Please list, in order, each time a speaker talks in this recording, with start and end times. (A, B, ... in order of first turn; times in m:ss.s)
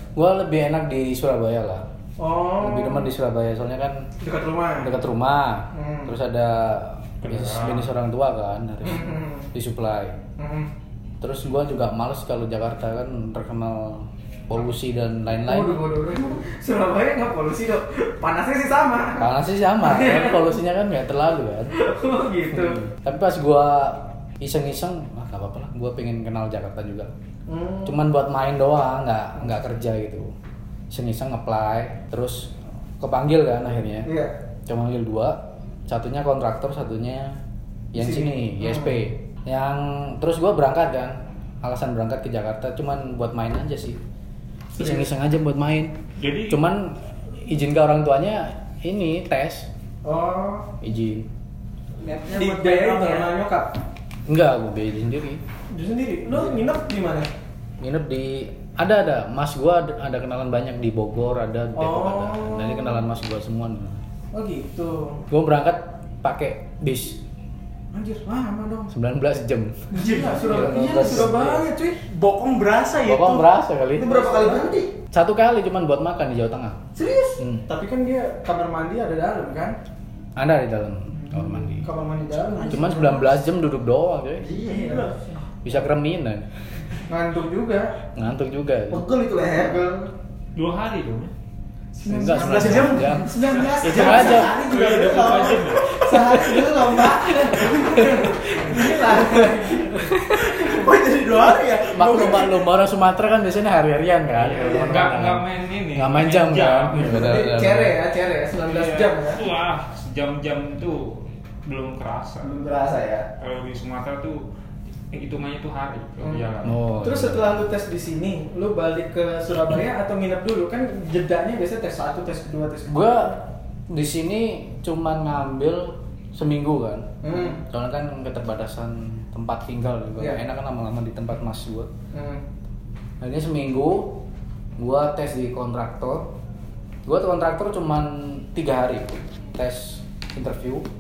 0:00.2-0:01.9 A
0:02.2-0:03.1 B
0:02.6-0:04.1 A
0:04.2-0:04.9 B
0:04.8-0:10.2 A
0:05.7-0:06.1 B
0:07.2-0:07.9 C
0:08.8-0:09.5 B
0:10.4-0:10.7 B
0:11.2-0:15.8 A
0:15.4-0:19.3 B
0:19.2-0:21.7 A
0:19.8-0:20.4 B
0:21.8-0:22.8 B
0:22.5-0:27.1 A
0:27.5-0:28.0 B
0:27.8-0:30.3 A
0:30.9-0:34.1 A
0:34.0-0:34.3 B
0:34.7-0:37.4 A
0:37.9-0:44.0 A
0:38.0-0:39.0 B
0:44.8-0:46.0 A
0:44.8-0:45.0 B
0:46.2-0:46.6 C
0:46.5-0:49.7 A
0:50.0-0:50.7 B
0:50.8-0:51.3 A
0:52.0-0:53.3 D
0:52.3-0:53.7 B
0:54.3-0:55.4 A
0:55.7-0:57.3 B
0:57.8-1:04.0 A
1:01.8-1:03.0 B
1:04.3-1:05.2 B
1:05.3-1:07.2 A
1:07.9-1:08.9 B
1:08.9-1:11.6 A
1:09.9-1:12.0 B
1:10.0-1:11.3 D
1:12.1-1:13.5 D
1:13.0-1:14.2 A
1:14.0-1:14.9 E
1:14.0-1:14.7 B
1:15.1-1:16.8 A
1:17.0-1:17.4 E
1:17.4-1:17.7 A
1:17.7-1:19.8 B
1:20.4-1:21.9 A
1:21.1-1:23.3 B
1:22.6-1:23.1 D
1:22.6-1:24.5 A
1:24.4-1:25.4 E
1:24.7-1:25.1 B
1:25.6-1:26.5 A
1:27.1-1:27.9 B
1:28.2-1:29.0 A
1:28.9-1:29.8 E
1:29.6-1:30.1 B
1:30.6-1:31.3 C
1:32.0-1:40.2 B
1:32.1-1:34.6 A
1:32.3-1:34.3 D
1:33.8-1:35.8 C
1:34.8-1:37.3 E
1:36.1-1:36.7 A
1:37.7-1:38.3 A
1:39.9-1:40.4 A
1:40.3-1:42.6 D
1:41.9-1:48.0 A
1:44.4-1:47.2 C
1:47.0-1:49.4 B
1:48.6-1:52.5 C
1:52.4-1:53.3 E
1:53.4-1:54.4 C
1:55.1-1:56.8 C
1:56.2-2:03.4 B
1:56.6-1:57.5 A
2:02.9-2:11.9 A
2:07.2-2:07.6 B
2:12.1-2:12.4 B
2:13.2-2:14.2 A
2:14.8-2:16.3 A
2:17.1-2:20.9 A